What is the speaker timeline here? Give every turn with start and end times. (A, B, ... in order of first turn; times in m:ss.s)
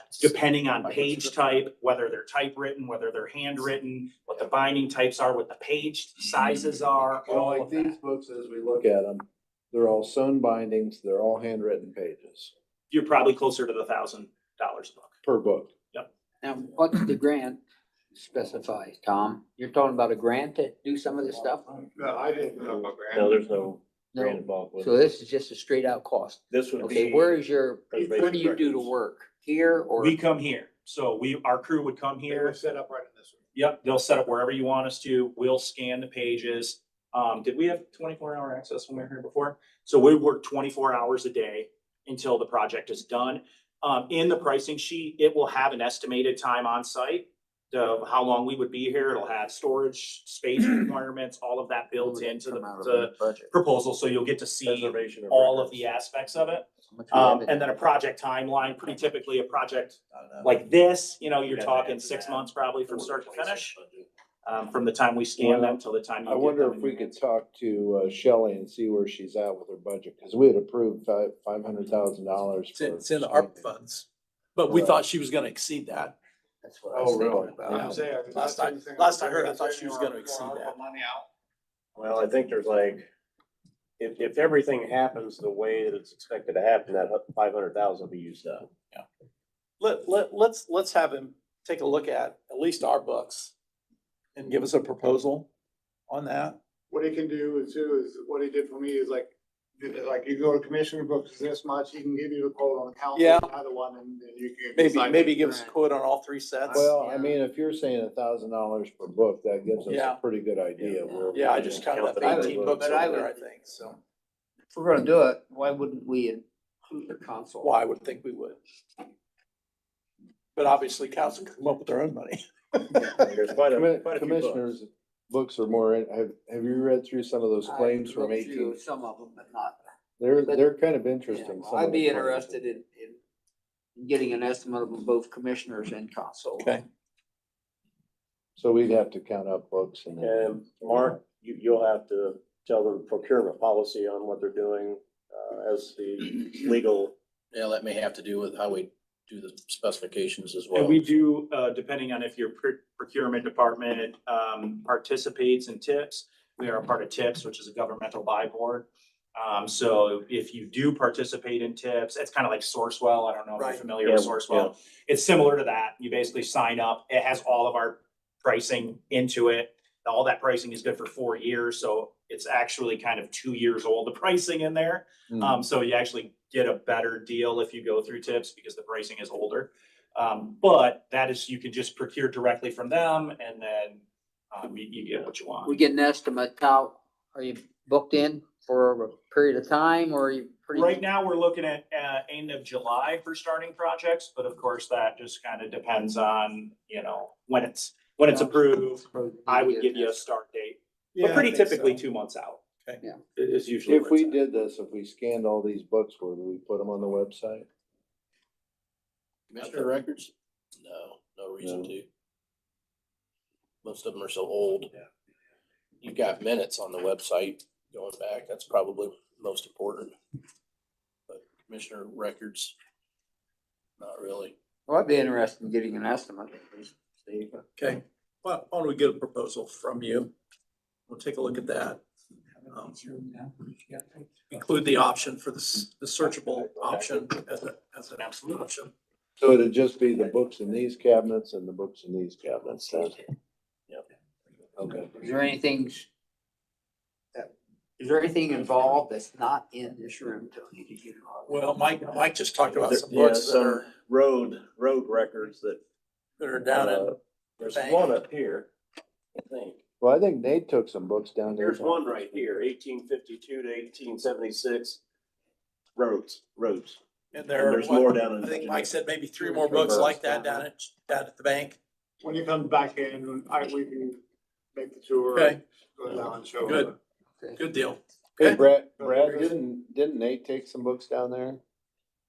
0:00.2-0:07.9 A
0:07.3-0:12.5 B
0:12.9-0:15.2 A
0:15.2-0:15.7 B
0:16.4-0:17.6 C
0:18.2-0:21.9 C
0:22.0-0:23.4 D
0:22.6-0:25.0 E
0:24.1-0:30.2 C
0:26.5-0:28.9 E
0:27.9-0:28.4 D
0:30.0-0:32.6 A
0:32.3-0:33.4 D
0:33.5-1:03.8 A
0:52.0-0:53.5 C
0:54.6-0:55.9 E
0:56.9-0:57.8 C
1:00.1-1:00.6 F
1:01.4-1:04.1 E
1:04.4-1:07.0 A
1:05.4-1:13.6 B
1:12.7-1:16.2 F
1:14.7-1:15.0 B
1:16.6-1:18.0 C
1:17.0-1:17.7 B
1:17.7-1:20.8 F
1:17.7-1:21.3 D
1:22.0-1:23.1 E
1:24.0-1:28.7 E
1:29.8-1:33.5 F
1:34.4-1:35.5 F
1:36.1-1:36.6 F
1:36.9-1:45.3 D
1:43.1-1:43.5 F
1:44.7-1:46.9 F
1:45.3-1:45.8 C
1:46.7-1:47.4 C
1:46.7-1:52.0 B
1:49.9-1:50.2 F
1:50.8-1:53.0 E
1:51.3-1:54.0 F
1:52.1-1:53.4 C
1:54.7-1:57.8 C
1:57.6-1:58.6 F
2:00.6-2:03.1 F
2:03.2-2:04.7 E
2:03.7-2:08.8 B
2:07.6-2:09.8 C
2:10.2-2:12.6 B
2:11.3-2:13.2 C
2:14.0-2:16.8 C
2:16.6-2:16.8 F
2:18.6-2:21.1 B
2:20.2-2:27.1 E
2:27.5-2:31.0 G
2:30.7-3:05.8 A
2:43.6-2:43.8 F
2:44.0-2:44.7 E
2:55.3-2:55.6 B
3:05.6-3:11.0 C
3:10.7-3:22.6 A
3:18.3-3:20.3 C
3:21.2-3:22.0 F
3:23.4-3:24.4 A
3:23.9-3:27.7 B
3:29.5-3:30.3 G
3:30.8-3:32.1 G
3:31.6-3:31.9 B
3:33.8-3:34.9 G
3:36.0-3:40.1 G
3:38.2-3:39.3 F
3:41.3-3:42.7 F
3:44.0-3:44.5 F
3:44.9-3:47.6 C
3:47.8-3:50.3 F
3:51.1-3:52.0 F
3:52.7-3:58.9 F
3:59.4-4:03.2 B
4:04.8-4:05.1 B
4:05.1-4:06.1 C
4:07.4-4:11.6 C
4:11.5-4:13.9 F
4:12.8-4:15.8 E
4:16.4-4:18.2 F
4:16.7-4:18.7 E
4:19.4-4:19.8 E
4:20.0-4:22.1 B
4:21.6-4:25.0 E
4:26.0-4:27.0 E
4:27.3-4:31.8 F
4:27.6-4:28.9 E
4:29.4-4:30.7 C
4:29.7-4:30.1 E
4:32.2-4:34.2 D
4:34.8-4:36.9 D
4:35.3-4:35.6 F
4:36.6-4:36.9 F
4:37.6-4:38.6 F
4:38.4-4:41.6 B
4:39.0-4:39.5 D